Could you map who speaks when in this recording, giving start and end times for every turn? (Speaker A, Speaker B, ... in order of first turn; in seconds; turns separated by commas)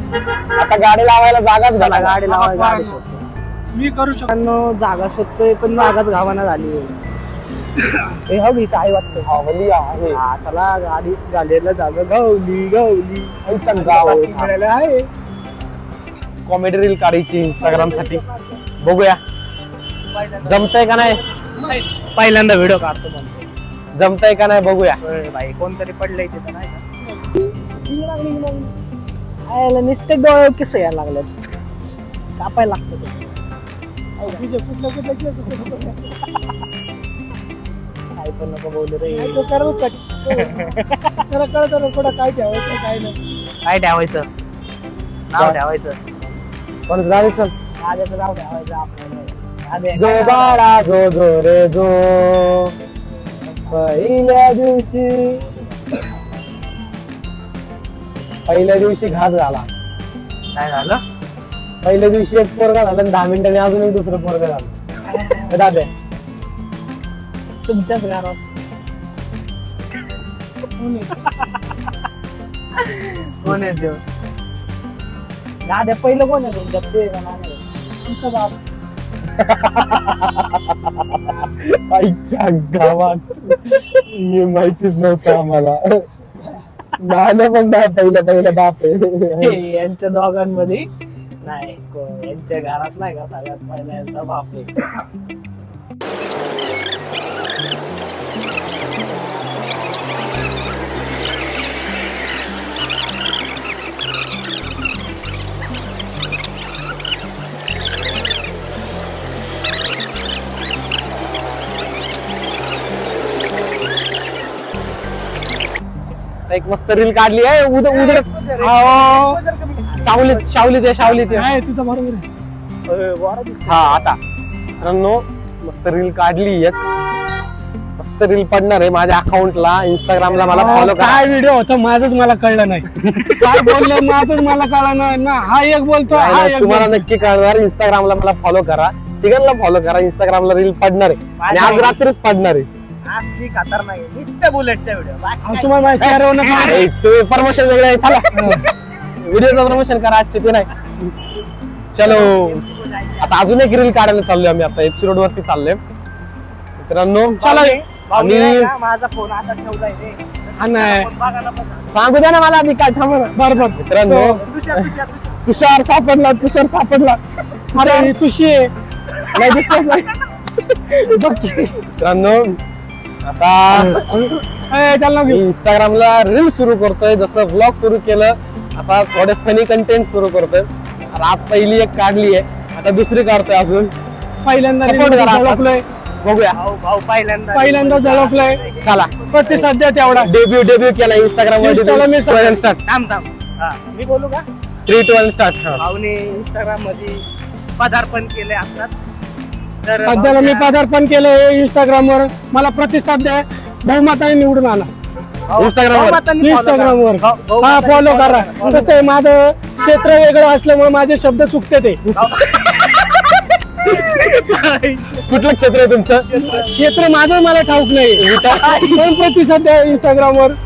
Speaker A: 0.5-2.2, Speaker B: 1.8-3.2, Speaker C: 2.2-3.0, Speaker C: 3.7-4.3, Speaker B: 4.3-7.0, Speaker B: 8.0-9.4, Speaker A: 9.2-10.2, Speaker B: 10.1-14.5, Speaker A: 13.4-14.3, Speaker C: 14.2-15.1, Speaker A: 16.4-18.2, Speaker C: 17.6-18.6, Speaker A: 18.8-19.2, Speaker B: 20.1-23.5, Speaker A: 20.4-21.2, Speaker A: 23.9-25.0, Speaker B: 25.0-26.8, Speaker C: 27.0-28.7, Speaker B: 29.4-31.5, Speaker B: 32.4-33.3, Speaker C: 34.2-36.2, Speaker B: 38.1-39.5, Speaker C: 39.1-40.8, Speaker B: 40.3-41.2, Speaker C: 41.3-43.2, Speaker B: 43.6-44.3, Speaker B: 45.3-46.0, Speaker A: 46.9-47.5, Speaker B: 47.8-50.6, Speaker A: 50.0-52.7, Speaker A: 53.7-55.4, Speaker A: 58.5-59.7, Speaker B: 60.5-61.0, Speaker A: 61.8-64.7, Speaker A: 65.5-65.9, Speaker B: 67.7-68.4, Speaker C: 70.8-71.0, Speaker B: 71.1-71.5, Speaker B: 72.8-74.0, Speaker B: 75.6-77.6, Speaker C: 78.0-78.5, Speaker A: 79.4-86.0, Speaker A: 87.0-89.6, Speaker B: 89.4-90.9, Speaker B: 91.4-94.7, Speaker A: 116.5-118.2, Speaker B: 117.8-121.5, Speaker C: 118.6-119.4, Speaker A: 120.0-121.5, Speaker C: 121.3-122.2, Speaker B: 122.9-124.1, Speaker A: 123.7-124.2, Speaker A: 124.8-126.8, Speaker A: 128.0-131.2, Speaker B: 130.2-130.9, Speaker C: 130.5-137.1, Speaker A: 133.0-134.3, Speaker A: 136.1-142.7, Speaker B: 141.4-142.0, Speaker B: 143.1-146.8, Speaker C: 145.4-146.9, Speaker A: 146.5-148.4, Speaker C: 148.3-148.6, Speaker A: 149.2-151.1, Speaker A: 151.9-152.6, Speaker B: 152.0-153.4, Speaker A: 153.2-155.8, Speaker A: 156.8-158.7, Speaker B: 157.4-161.9, Speaker C: 160.6-161.1, Speaker A: 161.9-164.9, Speaker C: 163.3-164.4, Speaker B: 164.4-165.4, Speaker A: 165.4-167.2, Speaker A: 167.7-168.1, Speaker C: 167.7-168.7, Speaker A: 169.3-170.1, Speaker C: 170.9-171.8, Speaker A: 172.0-172.6, Speaker A: 173.2-174.3, Speaker C: 174.6-175.4, Speaker A: 175.2-183.9, Speaker C: 184.4-185.8, Speaker A: 184.8-186.6, Speaker B: 186.5-189.7, Speaker C: 187.5-188.6, Speaker A: 188.8-189.6, Speaker C: 189.3-190.3, Speaker A: 190.2-192.8, Speaker C: 191.6-192.7, Speaker B: 192.8-194.4, Speaker A: 194.8-195.8, Speaker B: 195.8-197.2, Speaker B: 197.8-199.0, Speaker B: 199.8-200.7, Speaker C: 200.0-204.9, Speaker B: 205.5-208.9, Speaker A: 205.6-206.2, Speaker C: 206.4-212.0, Speaker B: 212.1-215.3, Speaker A: 215.2-216.2, Speaker B: 216.2-216.8, Speaker C: 216.3-220.6, Speaker A: 218.2-218.9, Speaker B: 218.4-219.0